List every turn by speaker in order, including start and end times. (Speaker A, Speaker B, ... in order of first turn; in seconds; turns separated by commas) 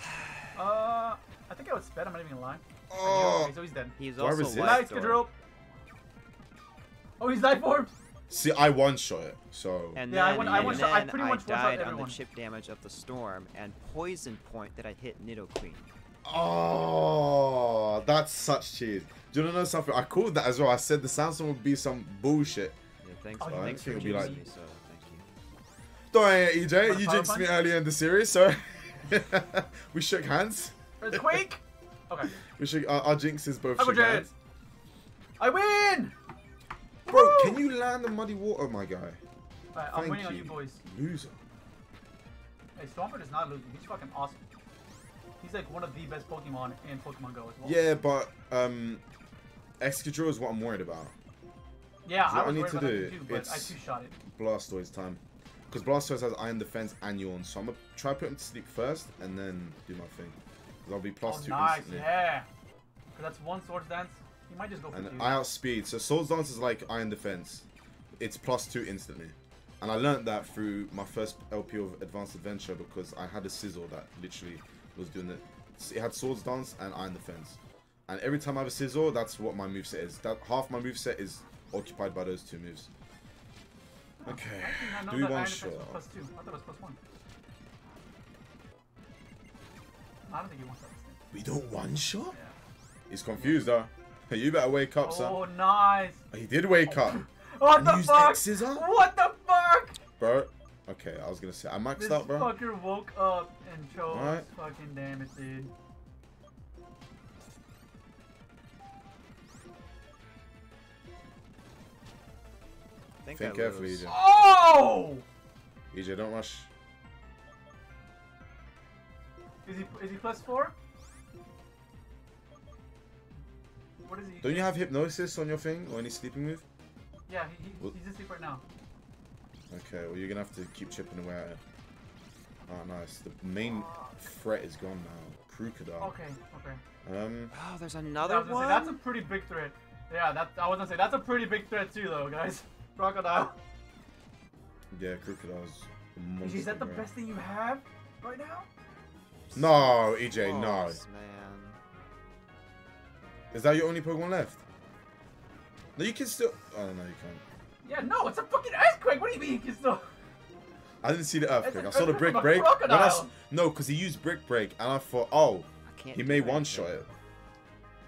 Speaker A: 0.5-4.0, Speaker B: 2.9-3.5, Speaker C: 4.0-5.2, Speaker B: 4.1-4.9, Speaker A: 4.5-5.3, Speaker A: 7.2-7.9, Speaker B: 8.3-11.0, Speaker C: 9.9-15.9, Speaker A: 10.1-12.2, Speaker B: 16.2-22.8, Speaker C: 23.0-25.3, Speaker A: 23.4-24.4, Speaker B: 23.4-24.4, Speaker B: 26.1-31.4, Speaker A: 26.8-27.5, Speaker A: 31.0-32.3, Speaker B: 32.2-34.3, Speaker A: 33.8-34.3, Speaker A: 35.4-36.1, Speaker A: 37.0-37.6, Speaker B: 37.1-39.2, Speaker A: 39.7-40.8, Speaker B: 39.9-41.4, Speaker A: 42.8-44.4, Speaker A: 45.4-47.8, Speaker B: 47.6-49.0, Speaker B: 49.8-51.1, Speaker A: 52.0-54.1, Speaker B: 52.2-53.7, Speaker B: 54.3-62.1, Speaker A: 61.2-62.5, Speaker A: 63.1-65.4, Speaker B: 64.9-67.6, Speaker B: 68.2-82.9, Speaker A: 84.2-87.0, Speaker B: 84.2-86.0, Speaker A: 90.3-91.2, Speaker B: 91.3-92.3, Speaker B: 93.1-95.4, Speaker A: 95.0-96.2, Speaker B: 96.3-98.8, Speaker A: 96.9-100.0, Speaker B: 100.2-102.5, Speaker A: 102.0-105.7, Speaker B: 104.1-104.5, Speaker C: 113.2-114.1, Speaker B: 113.3-114.1, Speaker A: 114.0-115.2, Speaker B: 115.9-116.7, Speaker A: 119.6-120.7, Speaker A: 124.0-124.7, Speaker B: 124.4-126.6, Speaker A: 127.3-128.6, Speaker B: 129.7-131.6, Speaker B: 132.7-136.1, Speaker A: 133.6-134.2, Speaker A: 136.0-136.8, Speaker B: 137.0-137.5, Speaker C: 137.5-139.0, Speaker A: 138.2-143.6, Speaker B: 144.9-147.1, Speaker A: 146.4-148.7, Speaker B: 149.5-151.0, Speaker C: 149.5-151.8, Speaker B: 153.5-154.6, Speaker B: 155.9-157.4, Speaker A: 157.8-160.1, Speaker B: 161.0-167.1, Speaker A: 161.6-163.3, Speaker C: 165.9-167.1